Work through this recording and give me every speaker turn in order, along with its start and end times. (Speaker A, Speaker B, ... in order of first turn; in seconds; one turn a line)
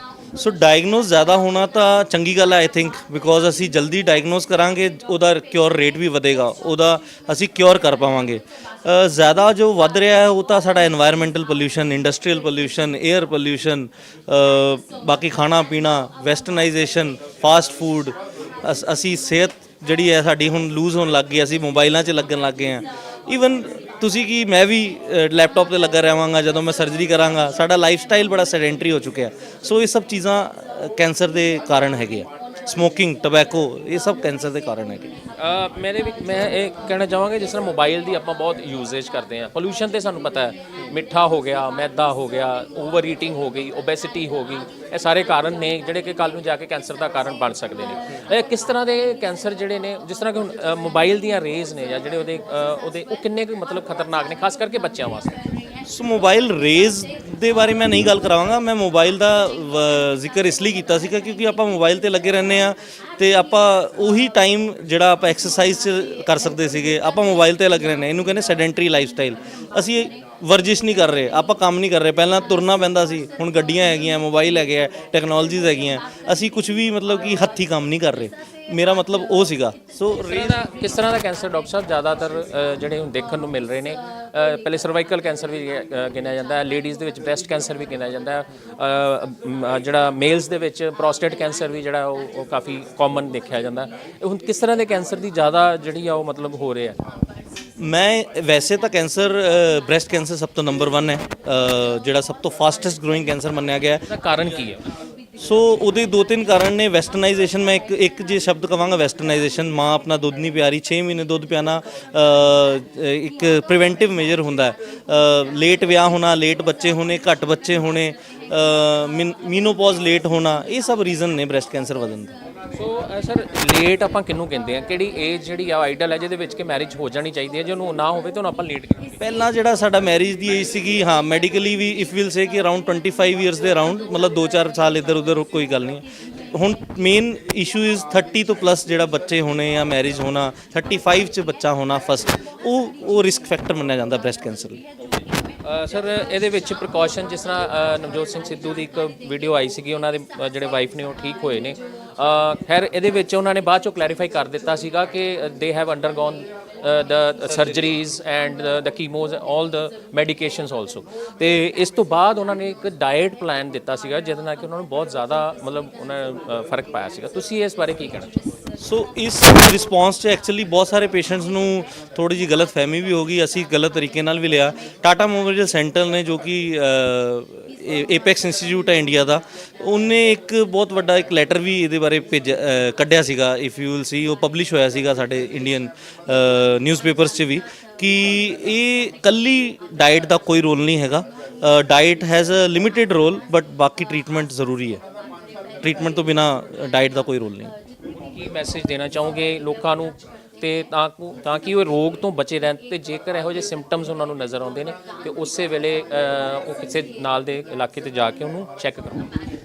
Speaker A: 0.3-35.1
Speaker B: 35.4-55.4
Speaker A: 55.8-80.5
Speaker B: 80.2-97.0
Speaker A: 97.8-104.0
Speaker B: 104.1-104.8
Speaker A: 105.4-122.4
Speaker B: 122.7-129.2
Speaker A: 129.2-144.8
Speaker B: 145.6-168.4
Speaker A: 168.8-195.0
Speaker A: 195.8-197.7
Speaker B: 198.3-209.4